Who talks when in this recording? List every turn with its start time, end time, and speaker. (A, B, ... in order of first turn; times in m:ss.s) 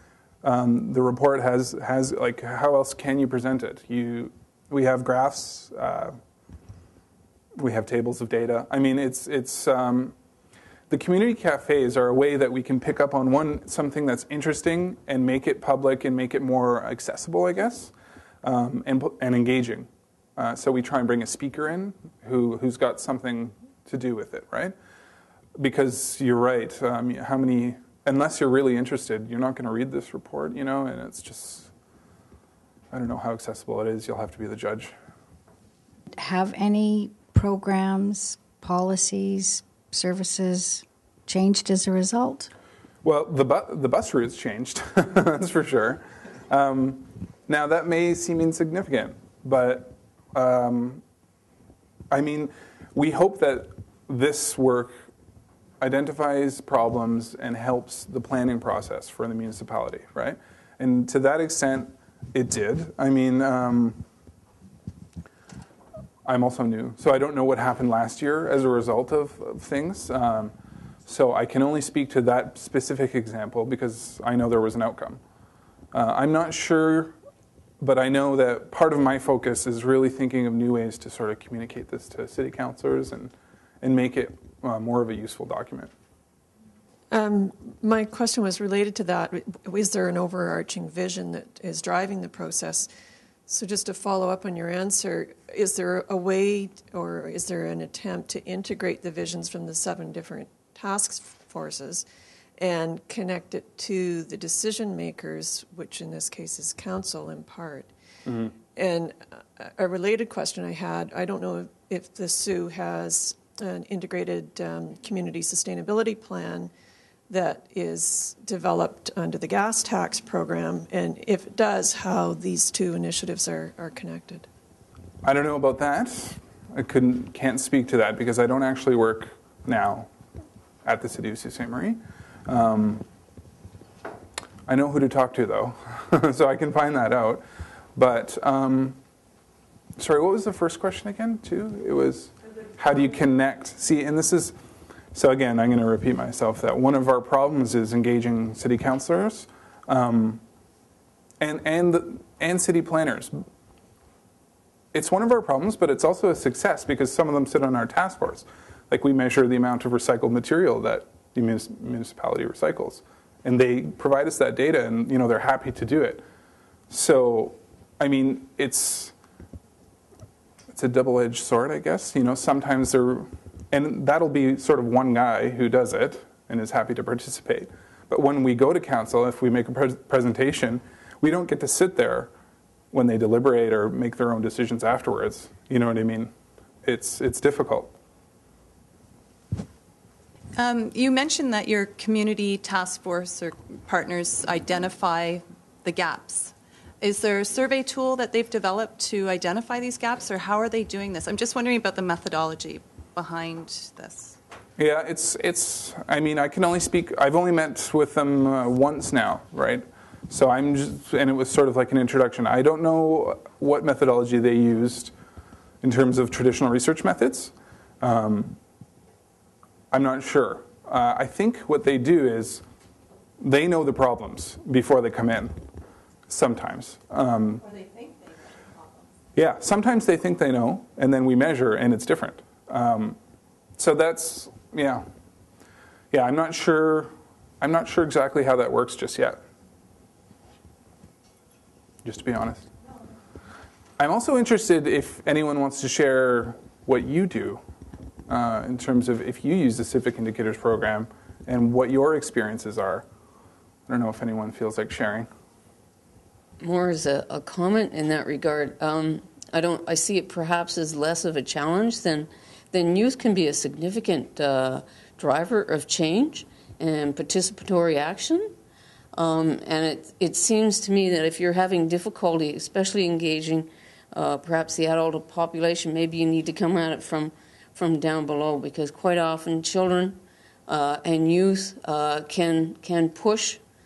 0:00.4-0:06.2 A
0:07.6-0:10.1 A
0:10.9-0:24.7 A
0:25.6-0:31.7 A
0:32.9-0:34.9 A
0:36.2-0:42.5 B
0:43.0-0:51.0 A
0:52.1-0:55.0 A
0:55.8-1:04.0 A
1:06.2-1:10.5 A
1:11.0-1:15.2 A
1:15.9-1:17.1 A
1:17.8-1:25.9 A
1:27.1-1:32.9 C
1:33.5-1:42.0 C
1:42.6-1:47.9 C
1:48.3-1:48.6 A
1:48.7-1:56.7 C
1:57.3-2:04.5 C
2:05.2-2:10.1 A
2:10.8-2:13.0 A
2:14.6-2:17.4 A
2:18.0-2:19.0 A
2:20.0-2:24.5 A
2:25.1-2:30.4 A
2:31.4-2:33.4 A
2:34.9-2:46.2 A
2:46.9-2:49.1 A
2:50.7-3:02.3 A
3:02.9-3:06.3 A
3:06.8-3:07.9 A
3:10.6-3:24.4 D
3:24.8-3:35.1 A
3:35.8-3:38.6 A
3:39.9-3:42.6 A
3:43.4-3:45.6 A
3:46.3-3:47.6 A
3:47.6-3:49.1 D
3:49.4-3:53.2 A
3:53.8-3:55.0 A
3:56.1-3:59.4 A
4:02.0-4:02.7 A
4:04.0-4:07.6 A
4:08.3-4:13.0 A
4:13.9-4:15.3 A
4:16.6-4:28.5 E
4:29.1-4:43.6 E